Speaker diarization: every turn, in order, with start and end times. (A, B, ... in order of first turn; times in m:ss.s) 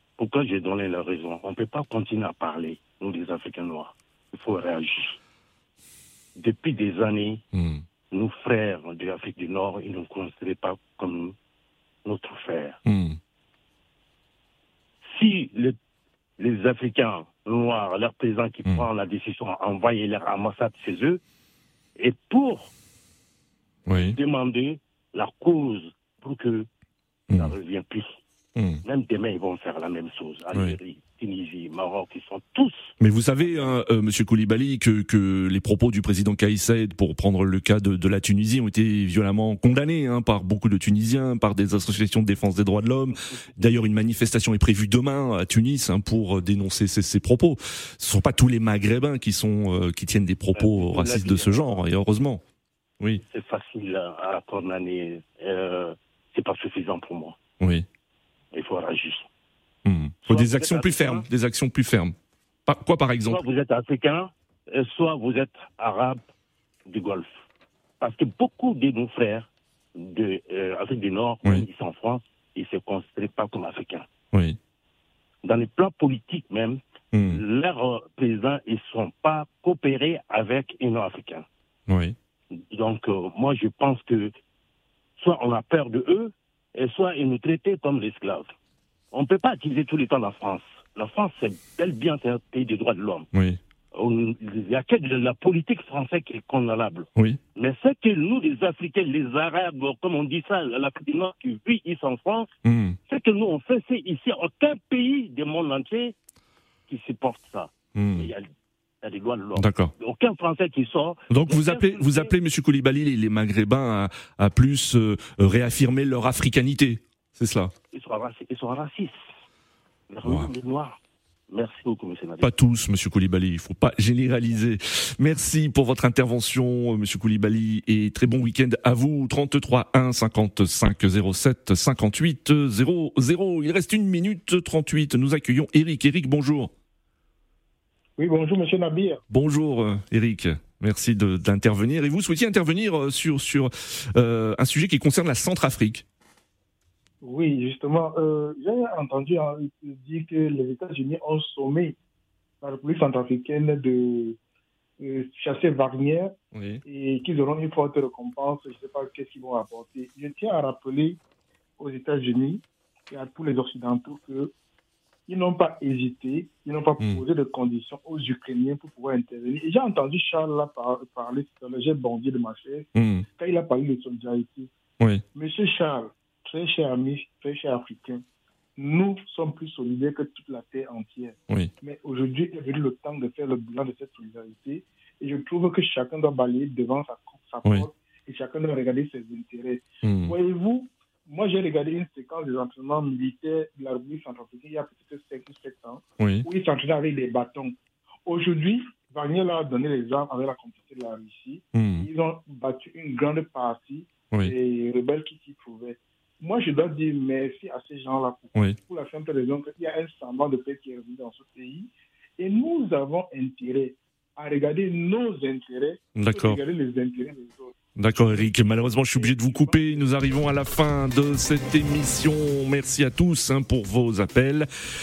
0:00.2-0:05.2 A
0:06.4-0:07.4 A
0:07.5-0:07.8 B
0:08.1-0:11.4 A
0:12.1-0:12.8 A
0:12.8-0:13.2 B
0:15.0-0:15.8 A
0:16.4-0:21.2 A
0:22.0-0:22.7 A
0:23.9-0:24.2 B
0:24.1-0:26.7 A
0:27.3-0:28.2 A
0:28.6-0:28.8 B
0:28.8-0:33.8 A
0:30.5-0:30.8 B
0:33.0-0:52.4 B
0:50.6-0:51.8 A
0:53.2-0:57.4 A
0:57.6-0:57.9 B
0:58.5-0:59.3 A
0:59.8-1:02.2 B
1:00.2-1:01.2 A
1:02.7-1:03.4 B
1:03.3-1:06.3 A
1:06.9-1:07.3 A
1:08.0-1:14.1 A
1:14.3-1:14.6 B
1:15.4-1:21.5 A
1:17.1-1:17.4 B
1:21.9-1:22.2 B
1:22.6-1:24.3 A
1:25.2-1:28.5 A
1:29.1-1:33.3 A
1:33.3-1:33.6 B
1:33.9-1:42.5 A
1:42.6-1:43.0 B
1:43.1-1:46.2 A
1:46.9-1:48.5 A
1:48.0-1:48.3 B
1:49.0-1:52.4 A
1:49.6-1:49.9 B
1:51.3-1:57.7 B
1:57.9-1:59.3 A
2:00.1-2:01.0 A
2:00.2-2:00.5 B
2:01.5-2:02.5 A
2:02.4-2:16.7 B
2:18.2-2:19.2 C
2:19.3-2:26.0 B
2:27.2-2:32.0 C
2:32.6-2:34.4 C
2:35.0-2:36.3 C
2:36.5-2:36.8 B
2:36.9-2:41.2 C
2:41.8-2:44.5 C
2:45.3-2:52.9 C
2:53.0-2:53.3 B
2:53.4-2:54.7 C
2:55.4-2:58.2 C
2:58.8-3:17.8 C
3:10.0-3:10.4 B
3:16.2-3:16.5 B
3:18.3-3:37.8 C
3:21.8-3:22.1 B
3:36.2-3:36.6 B
3:38.0-3:44.7 B
3:39.2-3:40.0 C